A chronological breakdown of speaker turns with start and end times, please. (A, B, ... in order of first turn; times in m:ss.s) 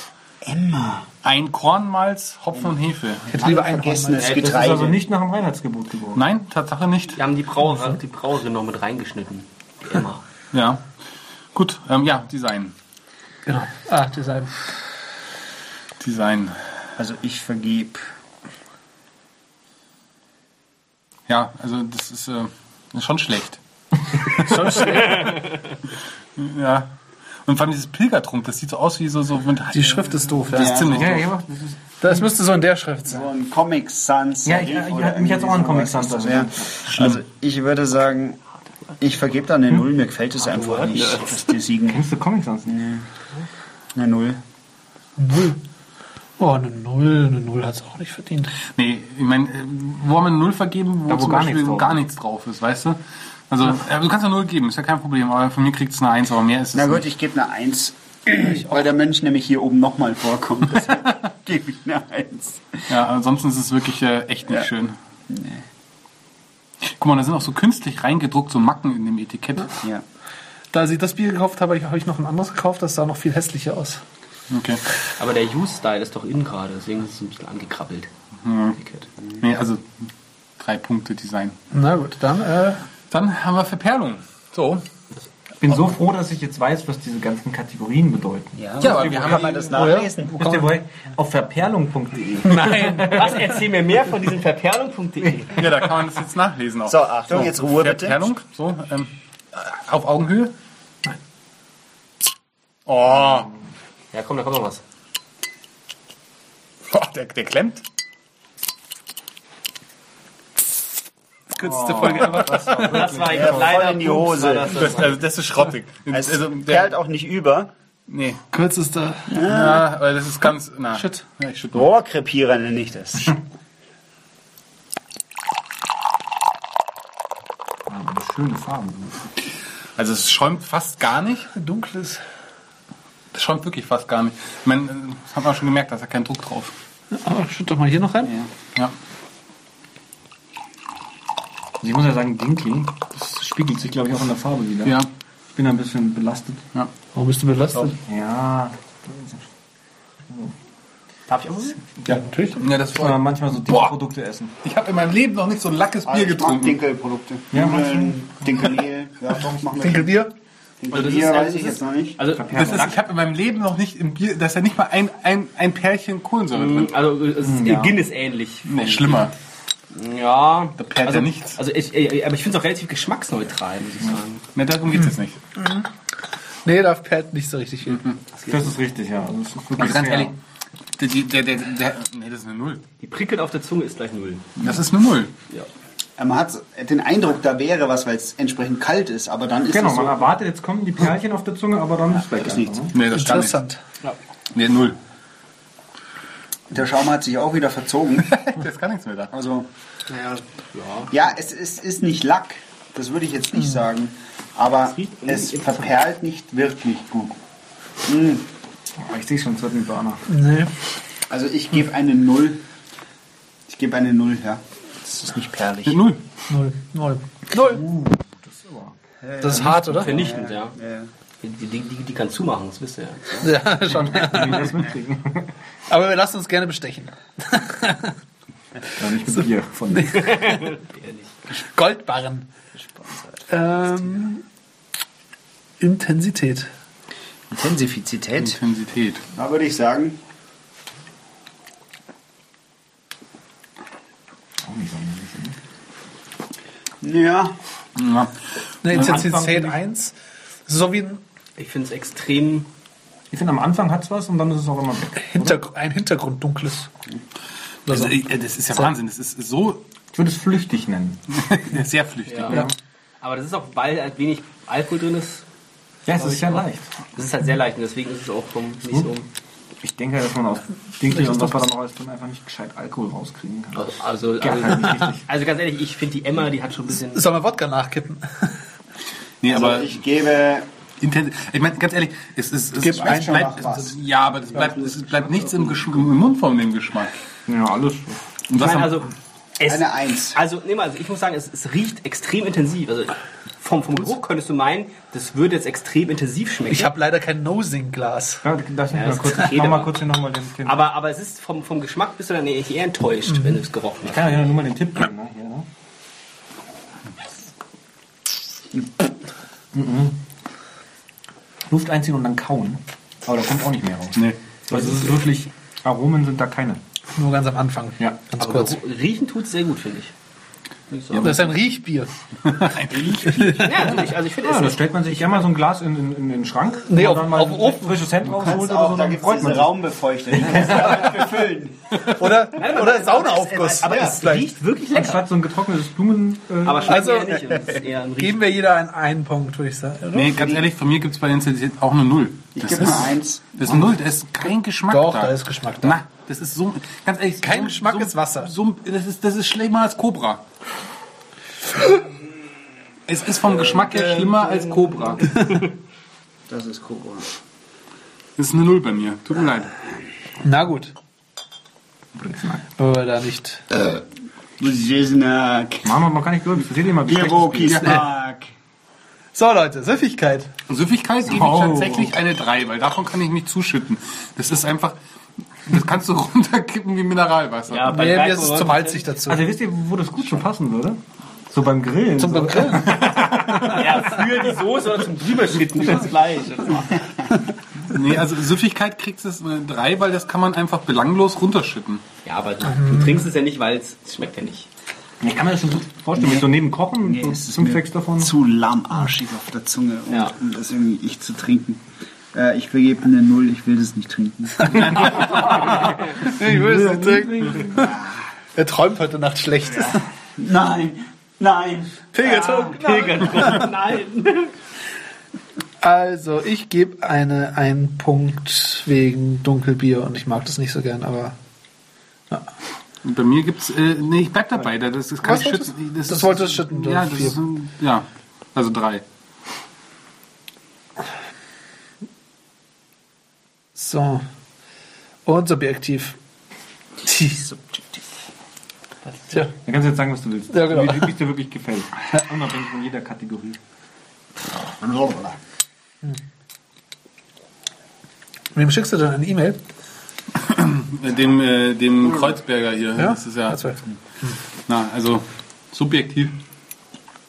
0:00.4-0:01.1 A
0:01.2-0:03.4 B
0:03.3-0:04.3 C
0:03.4-0:05.0 A
0:04.2-0:04.6 D
0:04.2-0:06.2 E
0:06.2-0:07.2 B
0:07.2-0:10.2 D
0:10.5-0:10.8 B
0:11.5-0:12.8 B
0:13.5-0:14.6 C
0:16.0-0:16.6 B
0:17.0-0:18.0 A
0:21.3-0:23.6 B
0:24.1-0:25.3 B
0:24.4-0:25.5 C
0:26.4-0:26.9 B
0:27.5-0:31.3 B
0:29.7-0:30.8 C
0:30.5-0:31.2 A
0:30.8-0:32.2 E
0:32.0-0:33.3 C
0:33.1-0:38.4 A
0:34.5-0:36.8 E
0:36.9-0:37.2 B
0:39.0-0:42.0 A
0:40.4-0:41.4 D
0:41.9-0:42.8 E
0:42.7-0:43.1 A
0:44.0-0:44.4 A
0:45.2-0:45.6 C
0:46.4-0:48.5 C
0:48.7-0:53.0 B
0:51.1-0:52.1 E
0:53.5-0:57.1 B
0:56.7-1:02.8 A
1:02.9-1:05.0 B
1:05.3-1:05.6 A
1:06.9-1:09.8 B
1:10.7-1:14.0 C
1:14.5-1:14.8 B
1:15.2-1:18.1 D
1:18.4-1:18.8 B
1:18.8-1:19.1 D
1:19.4-1:19.8 B
1:20.6-1:21.6 B
1:21.7-1:22.8 C
1:23.1-1:24.8 B
1:25.6-1:33.3 E
1:28.6-1:30.4 A
1:28.8-1:29.7 B
1:29.7-1:30.8 C
1:32.5-1:35.6 D
1:35.6-1:40.5 B
1:36.9-1:38.3 A
1:42.9-1:43.5 B
1:44.1-1:44.8 D
1:46.9-1:47.8 B
1:51.5-1:53.1 C
1:51.6-1:53.7 E
1:52.2-1:52.6 B
1:52.8-1:55.2 D
1:53.3-1:54.8 A
1:54.8-1:56.9 B
1:56.1-1:57.7 A
1:58.1-1:58.4 B
1:58.5-1:59.4 C
1:59.3-1:59.8 A
1:59.4-2:01.9 B
2:00.9-2:01.2 C
2:01.7-2:03.4 A
2:07.9-2:09.3 E
2:10.0-2:11.5 B
2:11.5-2:12.2 C
2:13.3-2:16.7 B
2:17.1-2:18.3 C
2:18.2-2:18.5 A
2:21.8-2:25.0 E
2:24.8-2:25.1 B
2:25.6-2:26.6 E
2:27.2-2:28.0 C
2:27.8-2:29.4 E
2:31.3-2:32.0 D
2:32.1-2:32.7 C
2:32.1-2:34.0 B
2:32.8-2:34.5 E
2:34.6-2:36.8 B
2:36.0-2:40.1 A
2:37.5-2:38.1 E
2:39.8-2:40.3 C
2:40.8-2:42.2 A
2:40.9-2:43.0 D
2:42.3-2:43.1 E
2:42.5-2:46.9 B
2:46.5-2:49.3 D
2:47.4-2:47.9 E
2:48.6-2:49.3 B
2:49.9-2:54.4 D
2:50.8-2:51.6 B
2:54.6-2:55.4 B
2:54.9-2:55.9 C
2:56.6-2:58.1 C
2:58.4-2:58.7 D
2:58.5-3:00.4 E
2:59.8-3:00.3 B
3:01.0-3:02.8 B
3:03.0-3:04.6 D
3:04.6-3:05.3 B
3:06.2-3:10.4 A
3:09.7-3:13.0 E
3:12.4-3:12.8 A
3:12.9-3:13.6 B
3:13.1-3:13.8 C
3:14.5-3:15.0 B
3:16.7-3:18.3 A
3:18.3-3:19.3 B
3:19.3-3:19.7 A
3:20.1-3:21.1 D
3:21.1-3:27.4 A
3:24.9-3:25.8 D
3:28.1-3:28.5 A
3:29.0-3:30.2 E
3:30.3-3:30.7 C
3:31.3-3:32.6 A
3:33.7-3:36.0 A
3:35.9-3:36.2 B
3:36.5-3:37.9 C
3:37.6-3:39.0 E
3:39.2-3:41.1 A
3:39.4-3:40.3 C
3:39.8-3:40.7 D
3:41.4-3:43.7 D
3:43.4-3:44.7 C
3:43.8-3:45.5 E
3:45.9-3:48.2 C
3:49.0-3:50.2 E
3:49.9-3:50.7 C
3:50.1-3:51.4 D
3:51.5-3:52.5 C
3:53.0-3:53.2 A
3:53.5-3:54.4 C
3:55.8-3:56.7 C
3:57.5-3:58.6 A
3:58.4-3:59.2 B
3:59.3-4:00.2 A
4:04.6-4:05.6 E
4:07.0-4:07.6 A
4:08.0-4:08.3 B
4:08.8-4:10.2 C
4:08.9-4:09.2 B
4:08.9-4:09.8 E
4:10.7-4:11.2 C
4:11.6-4:12.7 D
4:13.3-4:15.6 E
4:15.2-4:16.9 C
4:17.9-4:18.2 C
4:17.9-4:19.8 B
4:20.1-4:21.2 E
4:21.3-4:22.7 B
4:22.3-4:22.6 D
4:23.2-4:25.4 D
4:26.1-4:26.9 E
4:26.2-4:29.3 D
4:29.8-4:35.2 E
4:31.1-4:31.6 C
4:33.8-4:37.2 D
4:37.1-4:38.5 C
4:39.4-4:39.9 B
4:39.5-4:40.7 A
4:41.0-4:47.2 B
4:42.8-4:43.5 C
4:42.9-4:44.0 A
4:47.5-4:48.2 E
4:48.5-4:49.0 B
4:48.6-4:56.9 D
4:49.7-4:50.4 A
4:56.7-4:58.5 C
4:58.4-5:00.8 E
4:58.9-5:00.0 D
5:00.6-5:04.5 D
5:04.0-5:05.7 E
5:09.7-5:10.2 E
5:11.7-5:16.8 E
5:17.2-5:18.8 C
5:18.4-5:20.1 D
5:20.9-5:21.5 D
5:21.2-5:22.1 C
5:22.5-5:23.9 B
5:23.1-5:23.8 C
5:23.5-5:25.1 D
5:23.9-5:29.8 E
5:26.8-5:28.1 C
5:28.4-5:31.8 A
5:30.4-5:31.2 E
5:32.0-5:34.5 C
5:32.6-5:35.3 D
5:33.9-5:34.1 A
5:34.9-5:37.0 E
5:36.6-5:38.5 D
5:36.8-5:37.6 C
5:37.5-5:37.8 A
5:38.2-5:40.4 C
5:40.1-5:50.4 B
5:40.4-5:40.7 A
5:42.6-5:44.0 A
5:44.9-5:46.0 C
5:47.4-5:48.5 C
5:53.1-5:55.3 B
5:55.2-5:55.6 D
5:56.5-5:57.3 A
5:58.4-5:59.7 B
6:00.4-6:00.9 C
6:02.2-6:02.6 E
6:02.8-6:03.6 C
6:03.7-6:04.0 A
6:04.6-6:06.0 A
6:05.8-6:07.8 E
6:07.1-6:08.5 A
6:07.7-6:08.0 B
6:09.3-6:10.5 C
6:10.7-6:15.0 B
6:11.3-6:12.1 E
6:15.7-6:18.0 B
6:17.7-6:19.0 D
6:17.9-6:19.5 C
6:19.2-6:23.9 E
6:22.2-6:24.0 C
6:23.6-6:27.0 D
6:27.9-6:32.0 B
6:32.2-6:34.7 D
6:32.6-6:33.2 C
6:35.2-6:38.3 E
6:36.2-6:36.5 A
6:37.0-6:41.8 A
6:40.1-6:40.4 D
6:42.3-6:45.2 A
6:44.6-6:48.0 C
6:44.9-6:45.3 B
6:45.1-6:45.7 E
6:46.3-6:47.9 E
6:48.6-6:50.0 C
6:50.4-6:52.2 A
6:52.1-6:53.7 C
6:52.2-6:54.5 D
6:55.8-7:01.4 C
7:03.0-7:09.0 B
7:05.2-7:07.4 C
7:13.8-7:14.2 C
7:15.2-7:16.2 C
7:17.0-7:17.4 C
7:17.3-7:18.0 A
7:19.6-7:23.6 E
7:20.5-7:21.1 C
7:24.6-7:25.3 A
7:28.5-7:29.6 C
7:30.4-7:33.6 B
7:33.0-7:33.8 C
7:34.7-7:36.4 B